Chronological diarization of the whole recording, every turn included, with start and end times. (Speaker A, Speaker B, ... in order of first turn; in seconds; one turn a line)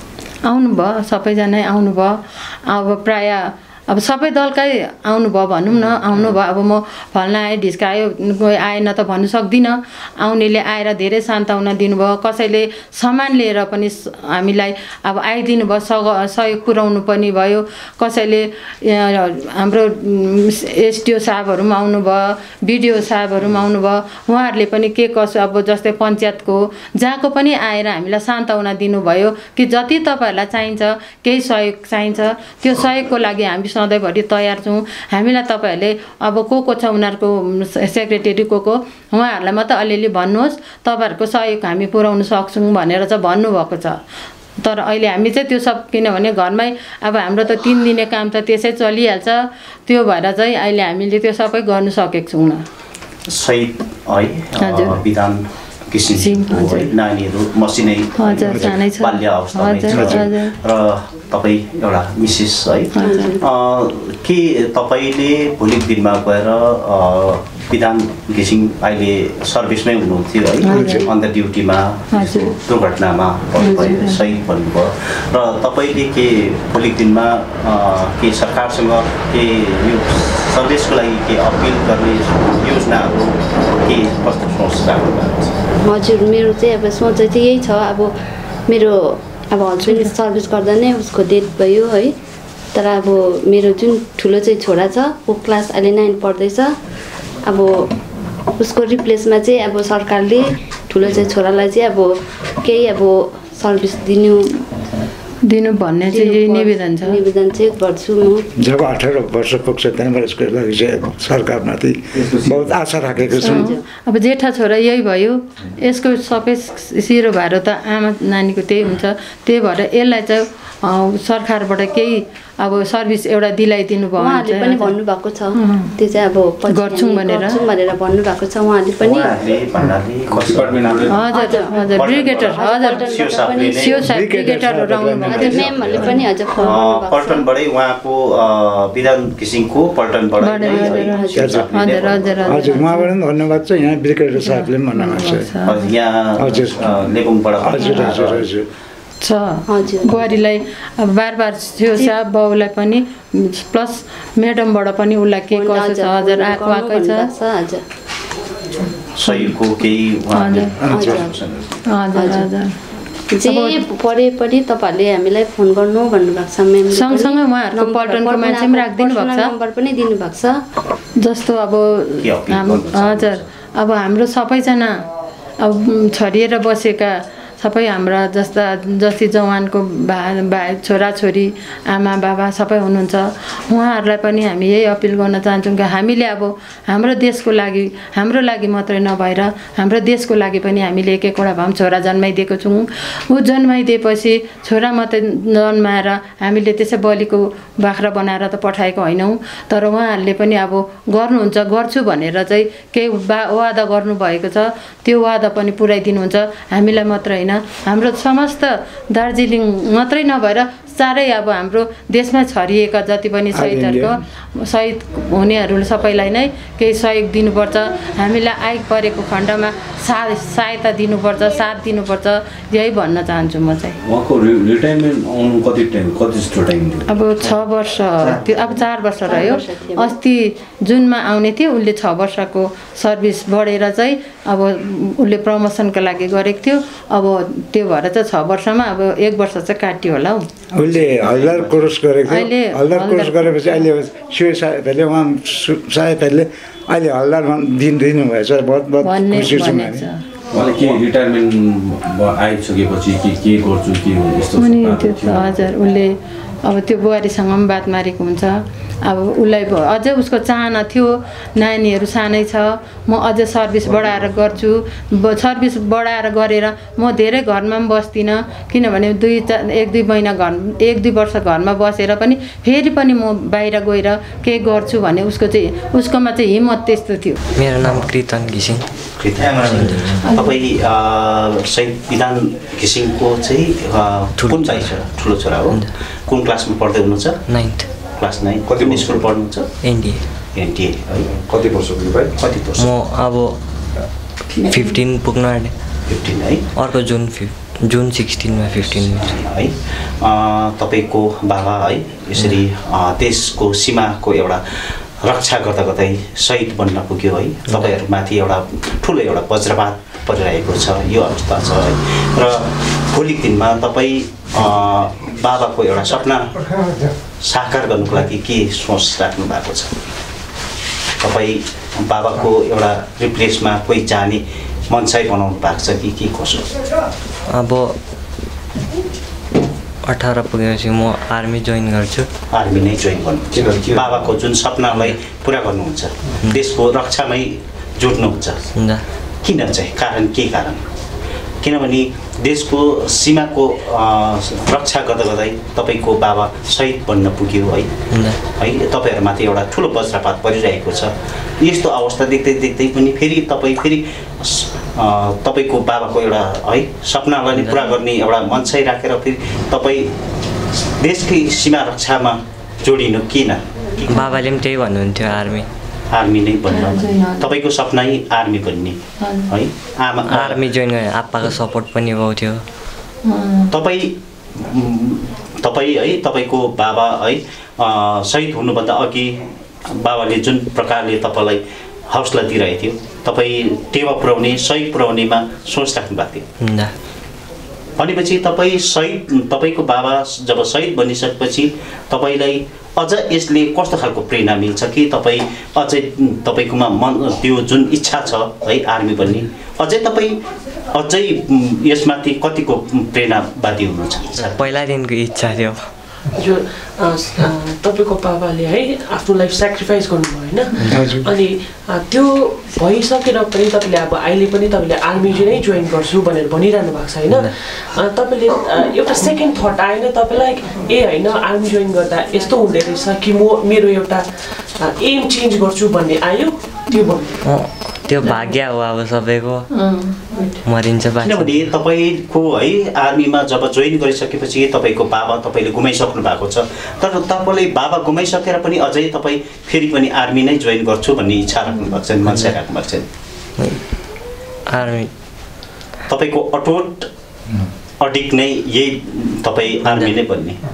Speaker A: 0.4-44.0
Speaker A: 44.6-52.6
Speaker B: 53.3-85.6
Speaker A: 54.6-55.0
Speaker A: 56.1-56.9
Speaker A: 58.2-60.5
Speaker C: 58.5-58.7
Speaker C: 59.9-60.3
Speaker A: 62.9-63.4
Speaker D: 63.0-63.5
Speaker A: 70.6-71.0
Speaker C: 70.7-71.1
Speaker A: 72.1-72.5
Speaker D: 73.6-74.1
Speaker A: 73.6-74.2
Speaker D: 85.8-88.1
Speaker D: 88.7-92.2
Speaker A: 89.8-90.1
Speaker D: 92.7-96.8
Speaker D: 97.4-97.9
Speaker D: 98.6-104.6
Speaker A: 105.4-107.2
Speaker D: 106.1-108.5
Speaker C: 108.6-113.7
Speaker E: 112.3-112.7
Speaker A: 113.4-125.0
Speaker D: 113.4-113.8
Speaker D: 124.2-129.3
Speaker A: 125.5-125.9
Speaker A: 126.7-127.6
Speaker B: 129.0-131.2
Speaker E: 130.3-131.2
Speaker A: 131.1-133.1
Speaker D: 131.3-134.0
Speaker B: 131.8-134.1
Speaker A: 133.7-136.8
Speaker C: 134.0-136.2
Speaker D: 135.3-137.5
Speaker B: 136.6-142.8
Speaker A: 140.4-143.1
Speaker D: 140.7-141.6
Speaker C: 141.3-141.7
Speaker C: 142.5-145.5
Speaker A: 144.4-145.8
Speaker B: 145.7-148.5
Speaker C: 146.4-148.7
Speaker A: 147.8-148.1
Speaker A: 149.2-157.3
Speaker D: 149.7-150.3
Speaker D: 155.5-157.8
Speaker B: 159.2-161.8
Speaker A: 159.3-159.5
Speaker A: 160.3-160.7
Speaker C: 160.8-161.2
Speaker D: 160.9-161.4
Speaker A: 161.9-162.8
Speaker D: 162.2-162.5
Speaker D: 163.3-170.6
Speaker A: 163.4-163.8
Speaker A: 166.9-169.5
Speaker A: 171.2-174.9
Speaker B: 172.2-173.5
Speaker A: 175.6-224.0
Speaker C: 213.5-214.1
Speaker E: 224.0-227.3
Speaker A: 227.1-240.4
Speaker D: 229.2-230.1
Speaker C: 240.8-250.1
Speaker B: 240.8-241.9
Speaker A: 242.3-243.9
Speaker A: 249.0-250.2
Speaker E: 250.5-255.6
Speaker A: 254.6-277.4
Speaker F: 277.6-278.9
Speaker B: 279.2-287.4
Speaker F: 279.5-280.2
Speaker A: 280.2-280.6
Speaker F: 284.4-285.1
Speaker F: 285.6-285.9
Speaker F: 287.5-287.9
Speaker B: 288.2-289.7
Speaker E: 288.8-289.1
Speaker F: 289.8-290.2
Speaker B: 290.6-291.3
Speaker B: 292.4-292.9
Speaker F: 292.8-293.6
Speaker A: 294.5-295.0
Speaker F: 294.6-295.7
Speaker B: 296.1-296.7
Speaker F: 296.8-299.4
Speaker B: 298.9-304.6
Speaker B: 305.2-316.6
Speaker F: 307.7-307.9
Speaker B: 317.4-319.9
Speaker B: 321.2-326.7
Speaker F: 327.5-328.0
Speaker F: 330.1-332.3
Speaker B: 332.5-338.6
Speaker E: 333.5-334.4
Speaker F: 338.8-339.0
Speaker B: 339.4-340.8
Speaker B: 341.6-347.9
Speaker F: 348.1-348.4
Speaker B: 348.5-360.1
Speaker F: 357.5-357.9
Speaker B: 360.9-364.4
Speaker F: 364.1-365.7
Speaker B: 366.1-370.7
Speaker A: 366.7-367.5
Speaker A: 369.2-369.5
Speaker F: 370.3-372.6
Speaker A: 373.2-373.7
Speaker B: 373.7-386.5
Speaker F: 386.6-386.9
Speaker B: 388.0-400.4
Speaker B: 400.9-404.6
Speaker F: 404.4-405.9
Speaker G: 406.3-427.4
Speaker F: 410.8-411.1
Speaker C: 410.9-411.3
Speaker F: 427.4-429.7
Speaker G: 428.2-428.5
Speaker A: 429.7-430.6
Speaker F: 430.6-431.7
Speaker B: 431.2-443.1
Speaker F: 443.6-443.9
Speaker F: 444.7-445.1
Speaker B: 446.1-447.1
Speaker B: 448.0-450.6
Speaker F: 449.8-450.2